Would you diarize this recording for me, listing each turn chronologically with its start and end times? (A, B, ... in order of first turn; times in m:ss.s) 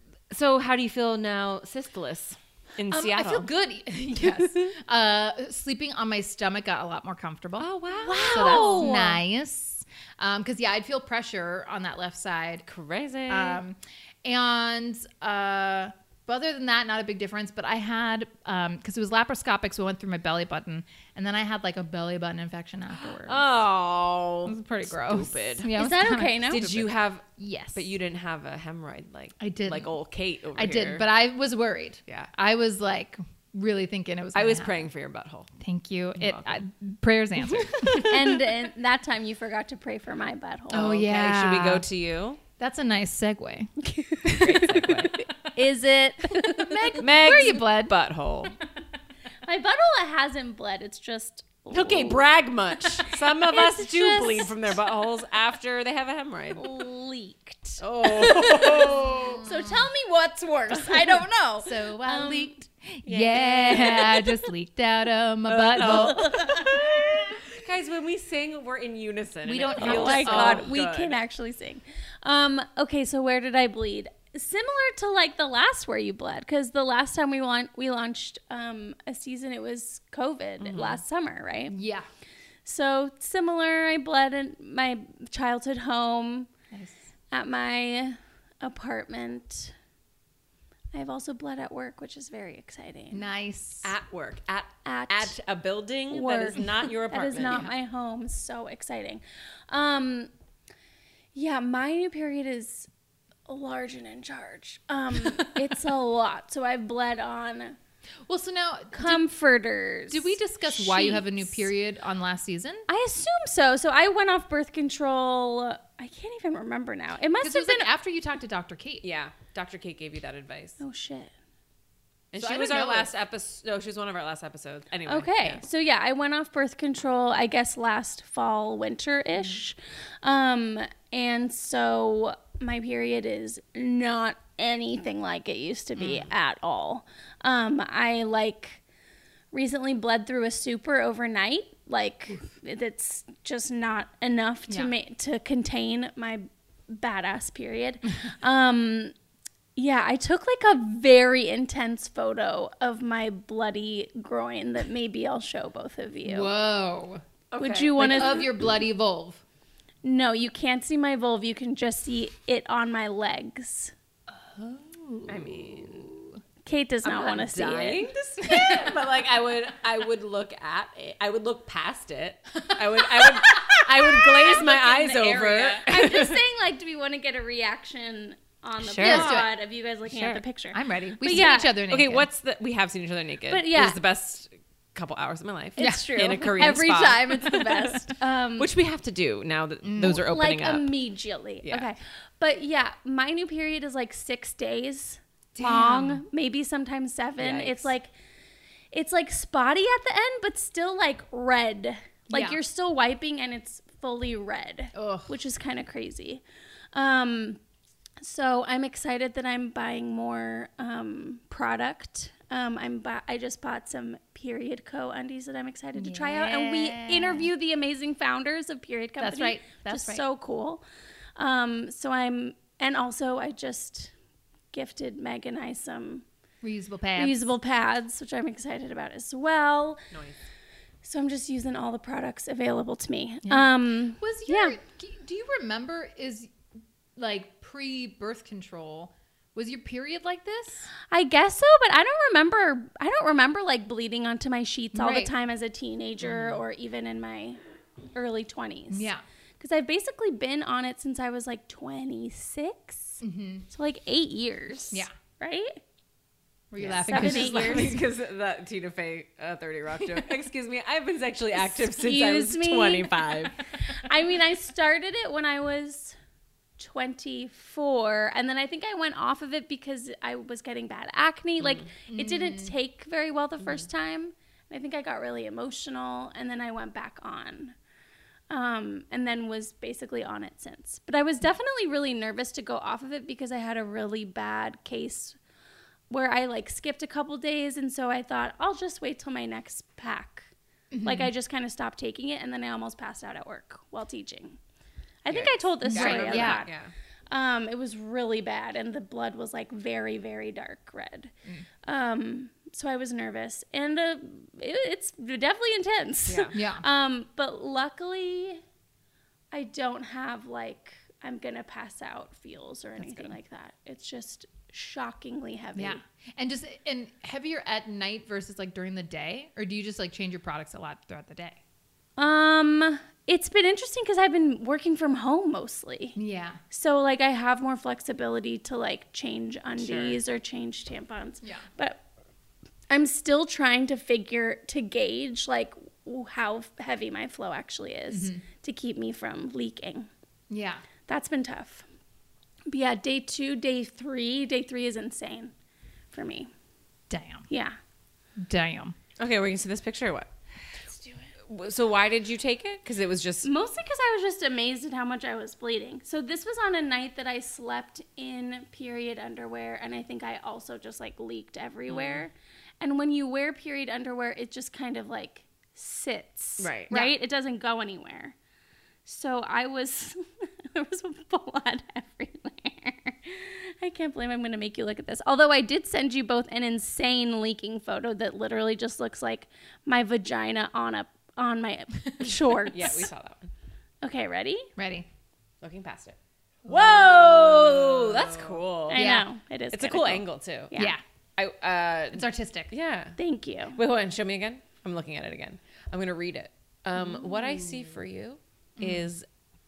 0:00.3-0:03.5 A
0:02.9-0:07.7 B
0:04.2-0:04.7 A
0:07.6-0:09.2 A
0:08.0-0:09.1 C
0:08.3-0:12.6 B
0:12.6-0:13.6 A
0:13.3-0:23.4 B
0:22.9-0:25.7 A
0:24.4-0:27.9 B
0:25.8-0:26.7 C
0:26.4-0:31.0 A
0:29.4-0:30.0 B
0:30.5-0:34.9 B
0:34.3-0:35.5 A
0:35.6-0:38.1 B
0:36.2-0:36.6 A
0:37.5-0:38.2 A
0:38.0-0:40.9 C
0:40.7-0:41.8 B
0:40.7-0:42.4 A
0:42.6-0:43.7 B
0:44.2-0:45.2 B
0:44.4-0:45.2 A
0:45.4-0:47.6 C
0:46.3-0:47.9 B
0:47.0-0:48.6 A
0:49.4-0:52.3 C
0:51.7-0:56.7 A
0:53.0-0:54.8 C
0:56.6-1:02.5 C
0:57.8-0:59.4 A
0:59.0-0:59.8 B
1:01.6-1:06.3 B
1:03.1-1:04.3 A
1:05.5-1:11.2 A
1:05.8-1:06.7 C
1:09.4-1:10.7 B
1:09.7-1:21.7 C
1:20.6-1:21.0 A
1:21.7-1:22.0 B
1:22.6-1:26.5 C
1:26.7-1:27.0 B
1:27.3-1:29.7 C
1:30.9-1:33.2 C
1:33.1-1:33.9 B
1:33.8-1:37.7 A
1:34.8-1:35.3 C
1:36.1-1:40.3 C
1:41.3-1:42.9 C
1:43.5-1:47.8 C
1:48.3-1:49.3 B
1:48.9-1:51.7 C
1:50.1-1:52.8 B
1:52.9-1:57.9 C
1:57.4-1:59.0 B
1:59.0-2:00.8 A
2:00.8-2:01.3 C
2:02.3-2:05.6 A
2:02.4-2:03.1 B
2:05.1-2:18.8 C
2:19.5-2:29.1 C
2:29.8-2:36.5 C
2:36.2-2:37.2 B
2:37.5-2:38.4 A
2:37.6-2:38.5 C
2:38.0-2:39.4 B
2:40.0-2:43.9 C
2:44.3-2:46.4 B
2:45.3-2:46.2 A
2:46.6-2:48.1 C
2:47.0-2:56.4 A
2:48.4-2:49.0 B
2:53.2-2:54.6 B
2:54.4-3:01.8 C
2:55.4-2:55.8 B
2:58.8-2:59.4 A
2:59.0-2:59.5 B
3:00.0-3:00.4 A
3:00.7-3:02.3 B
3:01.9-3:08.0 A
3:03.5-3:04.0 C
3:05.8-3:08.7 C
3:05.8-3:06.1 B
3:08.6-3:10.9 A
3:09.8-3:10.2 B
3:10.2-3:18.1 C
3:15.6-3:16.2 B
3:17.4-3:17.9 A
3:18.9-3:26.4 C
3:22.3-3:22.6 B
3:24.9-3:25.3 B
3:26.9-3:27.6 C
3:28.2-3:40.8 C
3:36.0-3:37.5 B
3:39.2-3:40.2 B
3:41.4-3:44.1 C
3:44.7-3:46.2 C
3:46.6-3:47.5 B
3:47.2-3:50.0 C
3:50.1-3:50.4 A
3:51.0-3:54.8 C
3:54.2-3:56.5 B
3:57.2-4:00.9 B
4:01.1-4:07.6 C
4:04.9-4:05.3 B
4:08.1-4:09.1 C
4:08.9-4:09.2 B
4:09.6-4:15.8 C
4:13.2-4:13.6 B
4:16.7-4:18.0 B
4:16.8-4:23.6 A
4:17.1-4:18.0 C
4:21.5-4:26.1 C
4:26.8-4:37.7 C
4:31.6-4:31.9 A
4:32.1-4:32.7 B
4:38.5-4:45.4 C
4:46.1-4:50.5 C
4:50.9-4:51.3 B
4:51.0-4:54.6 C
4:55.2-4:56.7 C
4:55.3-4:56.9 A
4:55.8-4:56.6 B
4:57.3-5:01.3 C
5:01.8-5:08.6 C
5:06.3-5:06.5 A
5:06.5-5:06.8 B
5:09.5-5:16.0 C
5:13.0-5:13.3 B
5:15.8-5:21.6 B
5:22.2-5:26.2 C
5:26.2-5:26.6 B
5:26.7-5:32.0 C
5:29.8-5:30.2 A
5:32.9-5:40.1 C
5:38.1-5:38.4 B
5:40.5-5:40.8 B
5:41.1-5:41.8 C
5:42.7-5:45.5 C
5:46.1-5:46.5 C
5:47.1-5:47.4 B
5:47.5-5:47.8 C
5:48.4-5:48.9 B
5:49.2-5:50.3 A
5:51.4-5:53.5 A
5:53.4-6:08.3 C
6:01.9-6:02.2 A
6:06.6-6:06.9 A
6:09.0-6:23.1 C
6:22.6-6:23.5 A
6:24.0-6:24.7 C
6:24.8-6:25.0 B
6:25.6-6:29.0 A
6:26.7-6:27.9 B
6:28.9-6:31.0 C
6:28.9-6:29.3 B
6:29.7-6:30.7 A
6:30.7-6:31.0 B
6:31.4-6:33.2 A
6:32.1-6:32.7 B
6:33.2-6:33.8 C
6:33.7-6:39.2 A
6:37.0-6:37.6 B
6:38.8-6:39.1 B